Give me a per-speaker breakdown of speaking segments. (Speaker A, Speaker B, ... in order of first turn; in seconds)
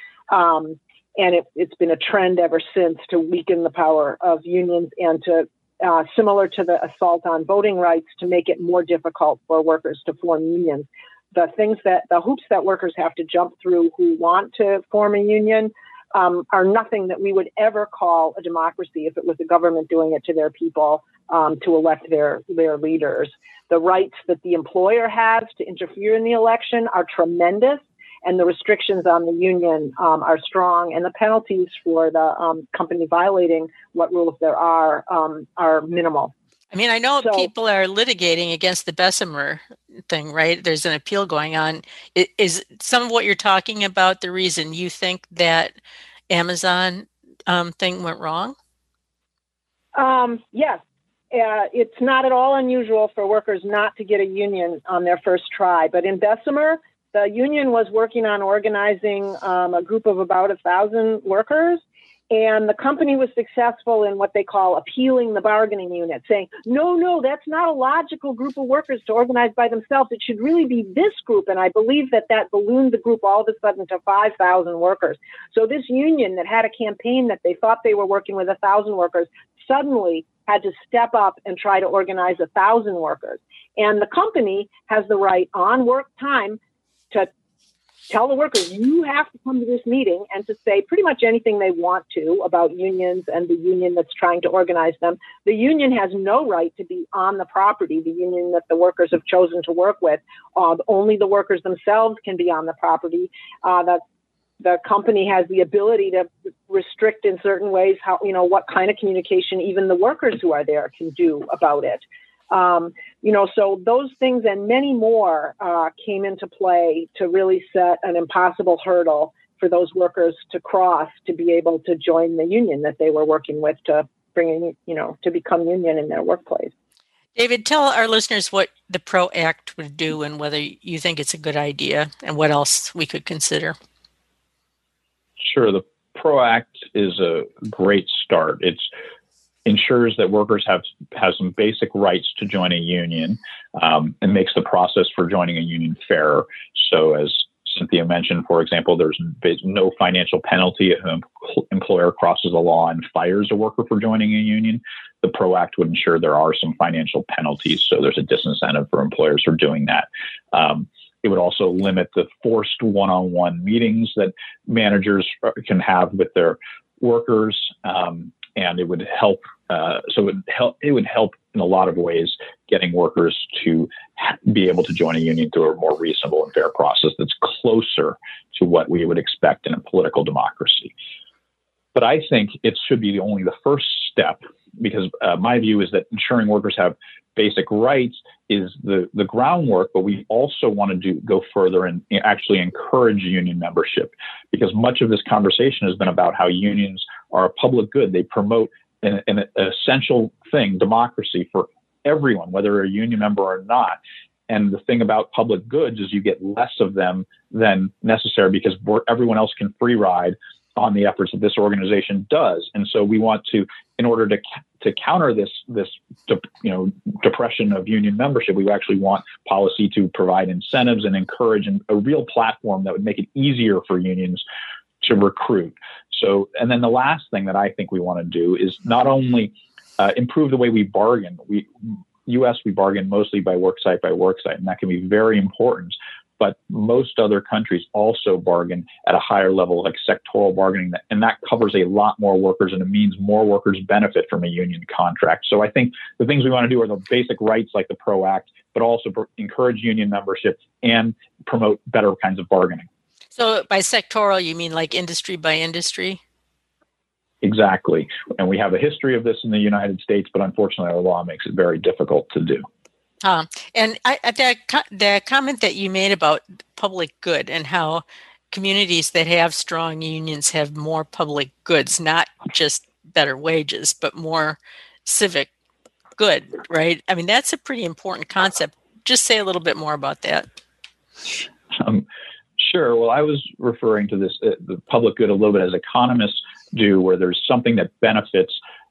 Speaker A: 0.3-36.3, 37.2-37.5, 50.0-50.8, 51.3-86.6, 88.1-104.0, 104.6-126.7
Speaker B: 36.7-45.7, 46.3-48.5, 127.3-133.7, 253.3-256.2, 263.2-275.5, 276.2-280.4
Speaker C: 135.4-138.9, 139.6-180.9, 181.9-204.0, 204.5-224.4, 225.0-252.9, 257.4-262.6, 281.7-282.1, 282.6-288.6